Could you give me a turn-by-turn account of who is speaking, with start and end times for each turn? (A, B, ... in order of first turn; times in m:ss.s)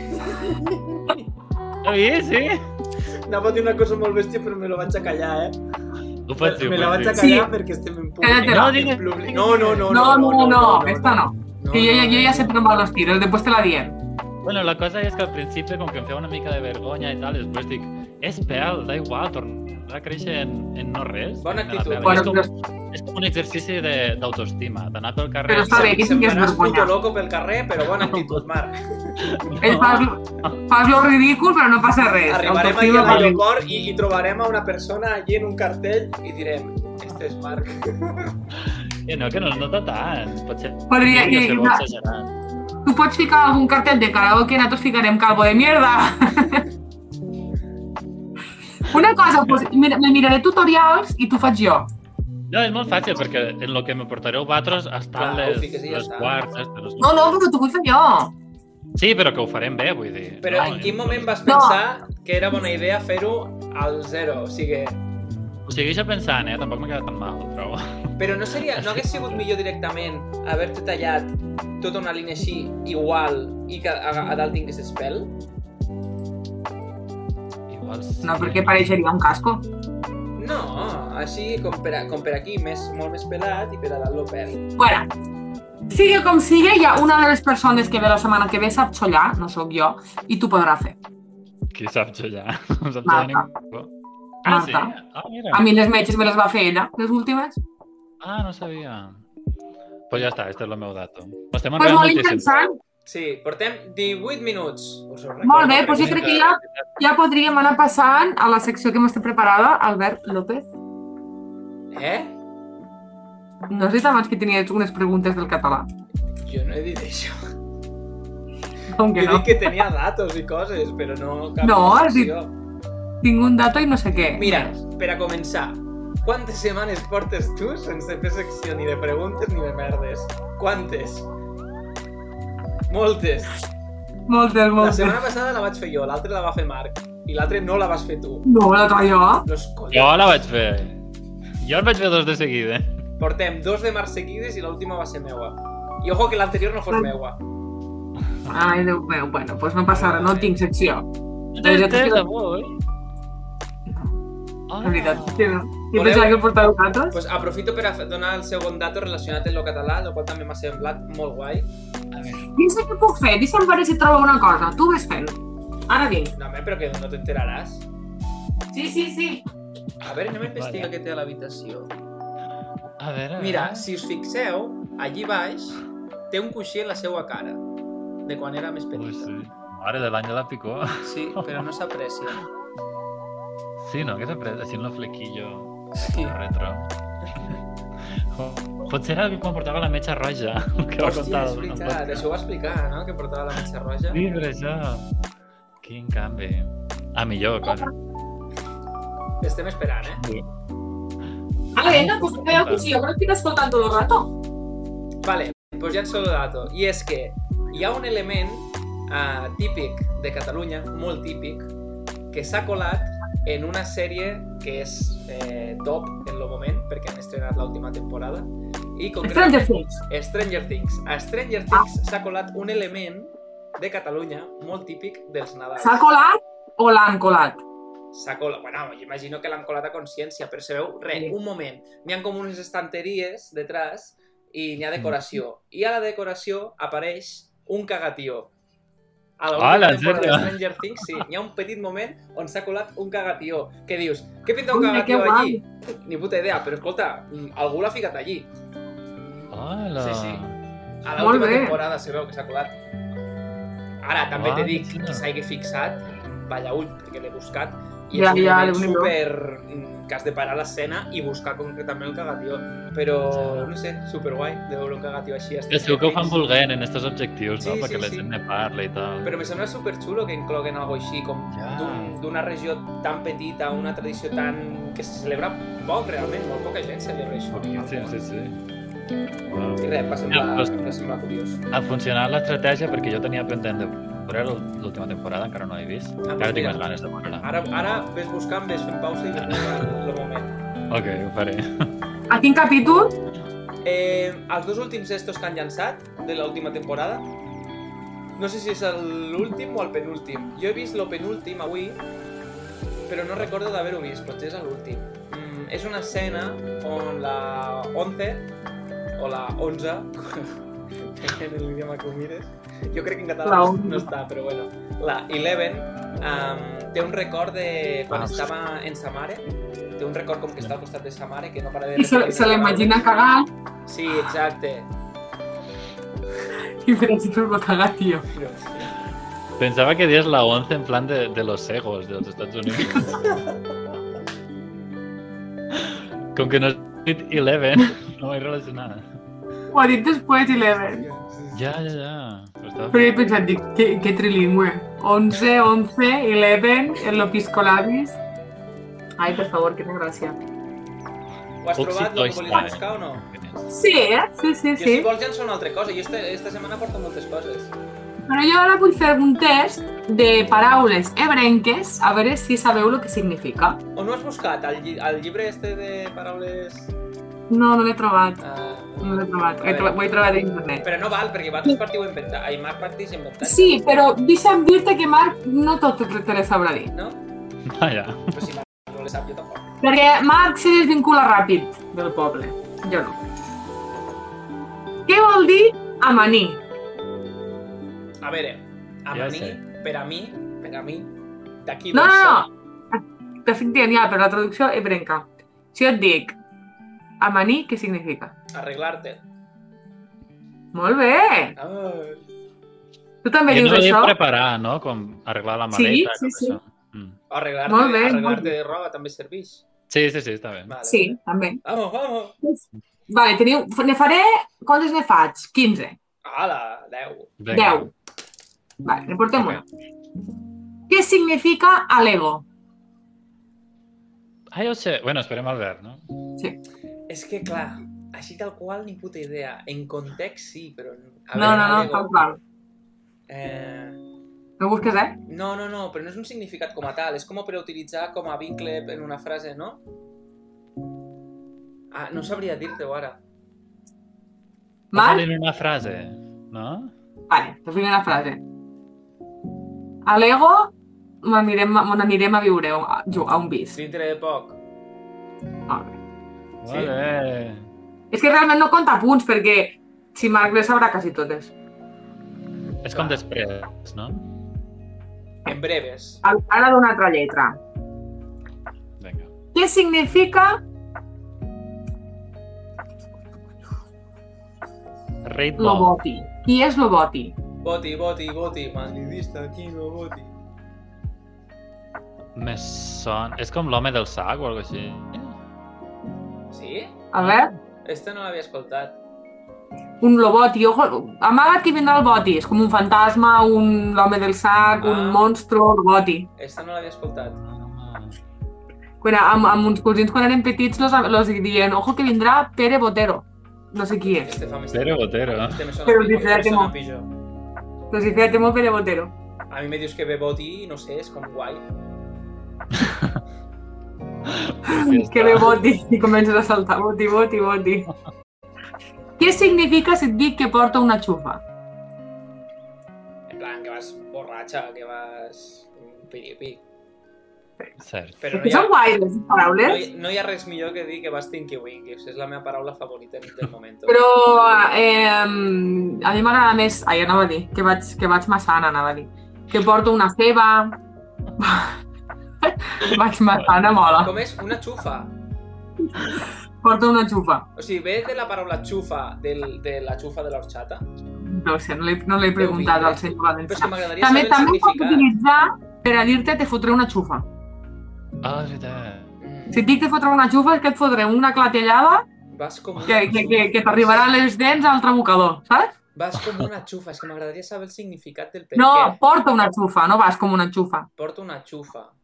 0:00.3-0:01.2 A
0:01.8-0:02.6 B
0:03.3-0:05.6 A
0:06.3-0:07.3 B
0:06.4-0:12.6 A
0:07.2-0:07.5 C
0:08.2-0:08.8 C
0:08.4-0:09.7 B
0:09.7-0:14.0 C
0:14.4-0:26.0 B
0:21.4-0:22.3 A
0:22.0-0:22.5 C
0:25.5-0:26.9 C
0:25.7-0:29.3 A
0:28.0-0:28.4 B
0:29.2-0:30.6 B
0:29.6-0:33.4 C
0:32.3-0:38.4 A
0:33.0-0:33.4 B
0:38.7-0:42.4 B
0:40.9-0:41.8 C
0:42.8-0:46.7 C
0:48.9-0:51.9 C
0:52.5-0:57.4 B
0:55.2-0:56.4 A
0:57.0-0:58.4 C
0:59.0-1:01.5 B
1:00.4-1:05.0 A
1:01.5-1:01.8 C
1:05.7-1:08.1 B
1:08.2-1:15.4 A
1:08.8-1:09.4 B
1:17.7-1:18.9 B
1:18.2-1:19.6 C
1:20.4-1:24.7 A
1:24.8-1:25.1 C
1:25.9-1:31.0 C
1:31.7-1:33.9 B
1:33.0-1:33.5 C
1:34.4-1:35.7 B
1:34.4-1:35.0 C
1:35.5-1:37.6 C
1:38.2-1:39.2 B
1:40.1-1:42.6 B
1:41.8-1:42.8 C
1:43.1-1:46.4 A
1:45.4-1:50.7 C
1:45.8-1:46.9 B
1:51.9-1:52.3 A
1:53.7-1:55.9 C
1:56.4-1:57.4 A
1:58.9-1:59.8 C
1:59.1-2:02.6 A
2:01.6-2:02.3 C
2:03.2-2:04.7 C
2:04.2-2:11.3 A
2:12.9-2:13.5 A
2:14.3-2:15.2 C
2:14.8-2:18.5 A
2:18.4-2:19.5 C
2:19.5-2:20.4 A
2:19.9-2:21.1 B
2:21.6-2:22.9 B
2:23.2-2:27.4 A
2:28.5-2:31.1 C
2:29.9-2:30.4 A
2:31.6-2:32.8 B
2:31.6-2:32.2 C
2:33.9-2:34.1 C
2:34.7-2:35.6 B
2:34.8-2:37.2 C
2:35.9-2:41.7 A
2:42.1-2:42.5 B
2:42.6-2:46.3 C
2:46.4-2:47.9 A
2:48.7-2:49.4 C
2:50.0-2:51.9 A
2:50.4-2:50.9 B
2:53.0-2:53.9 B
2:53.4-2:57.6 A
2:58.2-2:59.3 A
2:59.0-3:01.5 B
3:01.0-3:02.4 A
3:03.8-3:06.9 B
3:06.0-3:06.4 A
3:08.3-3:12.2 B
3:11.0-3:14.2 A
3:14.1-3:15.1 B
3:15.8-3:17.9 B
3:19.4-3:20.2 A
3:20.2-3:20.5 B
3:21.8-3:24.3 C
3:21.8-3:22.9 B
3:25.2-3:31.7 A
3:32.3-3:46.1 A
3:39.2-3:40.0 C
3:45.8-3:47.6 C
3:48.1-3:58.5 A
3:59.4-4:08.5 A
3:59.5-4:01.2 B
4:04.7-4:05.6 C
4:09.5-4:10.6 B
4:10.0-4:10.4 A
4:11.0-4:12.8 A
4:11.2-4:11.8 C
4:14.0-4:26.4 A
4:14.3-4:15.2 B
4:18.1-4:19.1 C
4:23.3-4:23.7 B
4:25.7-4:29.4 B
4:27.6-4:28.3 A
4:29.2-4:38.2 A
4:31.5-4:32.2 B
4:37.5-4:38.6 B
4:39.5-4:40.7 B
4:39.8-4:41.6 A
4:41.7-4:47.5 B
4:46.2-4:50.5 A
4:49.4-4:49.7 B
4:50.9-4:51.9 B
4:52.3-4:53.2 C
4:53.8-4:57.3 A
4:58.4-5:02.0 A
5:03.1-5:08.5 A
5:09.2-5:23.1 A
5:13.4-5:14.1 C
5:18.1-5:18.5 B
5:22.0-5:23.5 C
5:23.9-5:24.9 A
5:26.8-5:28.3 C
5:28.3-5:28.9 A
5:29.6-5:33.4 B
5:35.7-5:39.1 B
5:39.7-5:41.1 C
5:40.9-5:41.6 A
5:41.5-5:43.3 B
5:42.9-5:48.2 C
5:49.2-5:50.4 C
5:51.6-5:53.2 A
5:51.7-5:53.7 B
5:53.7-5:55.1 C
5:54.8-5:57.7 A
5:58.3-6:03.8 C
6:04.0-6:07.0 A
6:07.5-6:08.4 C
6:08.4-6:10.2 A
6:09.0-6:10.9 C
6:10.8-6:13.9 A
6:13.4-6:16.9 C
6:16.9-6:17.2 A
6:17.6-6:18.4 B
6:18.3-6:19.7 A
6:19.8-6:23.2 C
6:25.1-6:26.6 C
6:28.2-6:31.1 A
6:29.1-6:29.6 B
6:31.6-6:32.5 A
6:31.9-6:36.4 C
6:37.2-6:38.3 C
6:38.5-6:39.2 A
6:40.7-6:41.6 C
6:41.6-6:42.2 A
6:43.2-6:44.2 C
6:43.5-6:47.2 B
6:45.7-6:46.6 C
6:47.3-6:49.7 A
6:47.7-6:48.5 C
6:49.9-6:50.8 B
6:50.7-6:52.4 A
6:50.8-6:51.6 C
6:52.4-6:56.0 C
6:56.2-6:57.3 A
6:57.4-6:57.9 B
6:57.5-6:57.9 C
6:58.8-6:59.6 C
6:59.3-6:59.6 B
7:00.9-7:02.4 C
7:04.5-7:06.0 B
7:07.1-7:12.1 A
7:11.4-7:12.4 C
7:13.3-7:14.0 A
7:14.6-7:15.2 C
7:15.3-7:19.8 A
7:21.9-7:23.2 A
7:24.9-7:26.9 B
7:24.9-7:25.3 C
7:27.3-7:28.4 C
7:30.0-7:33.8 C
7:33.8-7:34.6 A
7:35.7-7:36.0 C
7:36.6-7:37.7 B
7:36.7-7:36.9 A
7:38.1-7:41.5 C
7:42.7-7:43.2 A
7:42.8-7:44.2 B
7:45.4-7:46.2 A
7:46.2-7:47.6 C
7:49.0-7:49.3 B
7:49.5-7:50.6 C
7:55.2-7:56.0 B
7:55.6-7:57.4 C
7:57.6-8:00.3 A
8:02.4-8:05.4 B
8:06.5-8:07.1 A
8:07.1-8:07.5 C
8:07.2-8:07.5 B
8:07.8-8:09.0 A
8:10.0-8:16.3 C
8:14.8-8:15.2 A
8:16.4-8:17.4 A
8:17.4-8:18.2 B
8:19.0-8:24.4 C
8:24.0-8:27.1 A
8:24.7-8:25.6 B
8:25.9-8:26.7 C
8:27.9-8:29.1 C
8:29.5-8:31.7 A
8:32.8-8:33.2 B
8:34.3-8:35.7 B
8:34.6-8:37.9 C
8:39.2-8:41.4 C
8:43.3-8:46.6 A
8:47.8-8:48.2 B
8:48.2-8:48.7 A
8:48.3-8:49.9 C
8:49.6-8:54.0 A
8:53.9-9:00.8 C
9:01.4-9:01.8 C
9:02.4-9:04.1 C
9:04.0-9:05.2 A
9:05.9-9:07.5 C
9:07.6-9:10.9 A
9:11.2-9:17.3 C
9:12.4-9:15.1 A
9:18.2-9:19.2 B
9:19.2-9:19.6 A
9:19.5-9:22.1 C
9:22.3-9:24.1 A
9:22.8-9:25.7 C
9:26.0-9:29.0 A
9:28.6-9:30.9 C
9:31.0-9:32.0 A